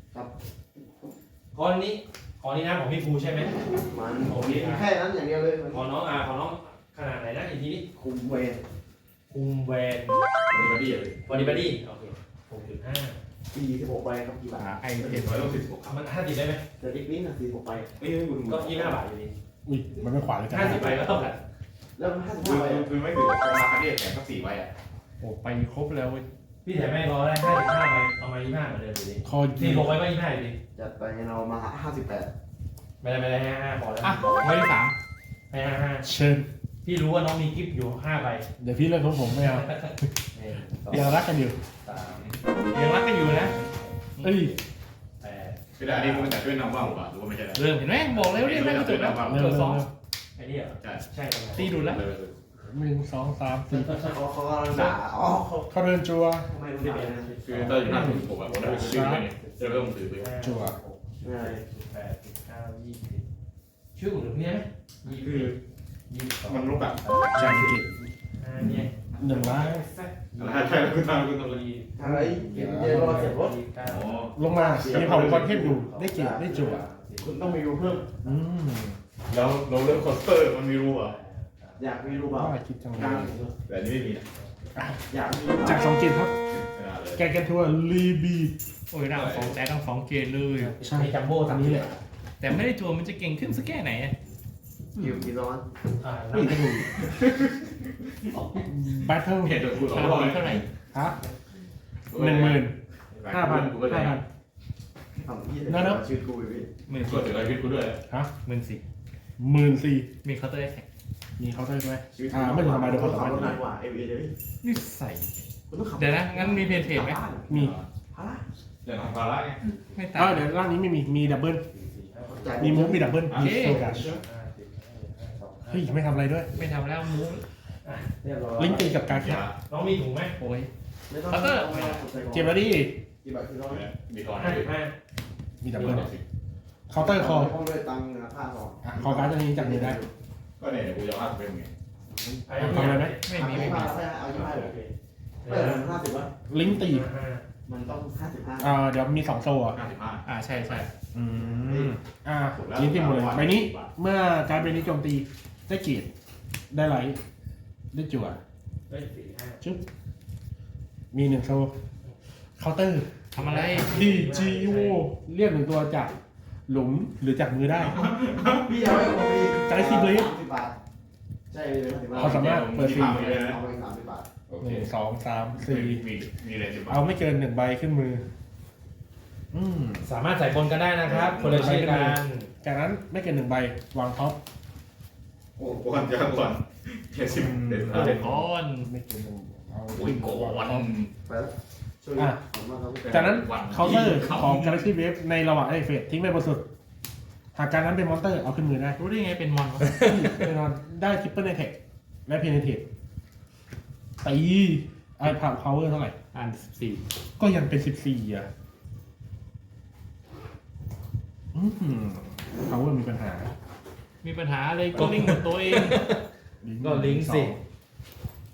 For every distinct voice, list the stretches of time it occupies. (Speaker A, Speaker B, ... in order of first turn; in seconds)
Speaker A: 1.5-3.6, 4.2-4.9, 5.7-7.9, 9.3-10.2, 11.2-13.2, 15.8-16.6, 18.4-19.4, 20.5-21.4, 26.6-30.6, 33.0-34.6, 35.5-36.1, 36.8-38.5, 39.4-41.2, 41.8-42.3, 43.2-44.0, 45.2-46.5, 50.4-51.7, 53.7-54.2, 56.7-63.2, 64.0-65.6, 66.1-67.7, 68.3-74.3, 75.7-78.3, 81.0-82.3, 84.4-84.6, 90.6-92.0, 96.0-96.8, 98.3-98.7, 121.7-122.8, 123.8-126.7, 127.8-129.0, 129.7-130.3, 131.7-132.1, 134.3-134.9, 135.7-136.1, 142.5-146.0, 146.6-147.4, 158.9-159.6, 163.4-165.1, 180.0-182.5, 214.9-216.2, 216.8-217.6
Speaker B: 3.8-5.9, 7.9-8.6, 13.5-14.8, 16.8-18.0, 21.9-23.0, 30.8-32.3, 53.8-55.7, 56.5-57.4, 61.2-61.6, 67.4-67.8, 72.0-73.6, 74.6-78.1, 81.8-83.6, 85.1-86.0, 95.0-95.7, 105.2-106.7, 112.2-114.4, 115.7-118.5, 122.2-124.2, 131.1-132.6, 133.2-133.9, 136.9-140.1, 142.1-142.8, 143.3-144.8, 145.4-146.4, 147.7-148.8, 151.4-151.9, 168.4-170.8, 171.5-174.3, 185.6-186.0, 191.2-193.4
Speaker C: 10.5-11.7, 15.0-16.0, 18.0-19.0, 22.3-24.7, 45.8-49.4, 51.6-52.4, 57.4-60.3, 65.0-65.5, 66.4-67.4, 70.3-71.6, 73.8-75.7, 79.3-81.2, 83.6-84.3, 86.5-87.3, 89.1-89.6, 95.0-95.3, 97.0-98.1, 99.4-100.7, 102.1-102.6, 103.2-104.2, 106.9-108.0, 117.5-117.9, 118.8-119.7, 123.2-124.2, 129.0-129.6, 133.7-134.7, 135.8-136.2, 140.6-141.7, 149.7-150.2, 152.5-153.9, 167.9-168.8, 172.1-173.6, 174.5-174.9, 175.6-177.0, 181.0-181.8, 185.6-188.2, 189.9-191.1, 193.0-194.9
Speaker D: 14.6-15.6, 25.2-26.3, 34.0-35.0, 42.7-43.5, 47.5-49.9, 51.6-52.0, 54.7-55.0, 88.9-90.7, 92.4-94.2, 99.9-100.7, 106.9-107.4, 108.5-108.8, 110.2-110.8, 114.6-117.2, 119.8-120.5, 123.3-123.8, 126.5-127.5, 130.4-130.7, 131.3-131.8, 143.2-144.0, 150.2-150.9, 163.3-164.0, 187.9-188.9, 199.0-200.0, 206.3-207.1, 214.2-216.1
Speaker E: 19.6-21.0, 29.2-29.9, 36.0-36.5, 38.6-39.7, 40.9-41.6, 44.2-44.6, 49.2-49.9, 52.6-54.0, 55.7-56.5, 57.8-59.3, 60.4-60.8, 67.4-67.9, 69.2-69.9, 72.0-73.4, 74.3-76.9, 78.2-79.0, 82.3-83.4, 84.8-85.0, 85.6-86.3, 87.1-88.5, 90.8-92.0, 96.3-97.0, 98.6-100.2, 100.9-101.2, 102.1-102.8, 103.3-104.2, 105.7-106.0, 109.4-110.1, 111.4-113.6, 117.5-117.8, 120.2-121.7, 122.6-124.2, 125.7-126.5, 128.6-129.5, 132.3-133.0, 135.6-136.1, 136.9-137.6, 138.8-140.0, 142.6-143.2, 146.5-147.1, 148.6-149.8, 151.1-156.1, 156.7-157.2, 157.9-158.4, 161.1-161.8, 162.6-166.2, 166.7-168.0, 169.6-170.3, 172.2-173.4, 174.6-176.1, 176.9-178.3, 179.5-180.1, 181.4-184.4, 187.3-190.9, 193.1-196.7, 197.6-199.0, 199.9-202.9, 204.2-206.2, 207.4-208.5, 211.5-213.5, 216.6-217.6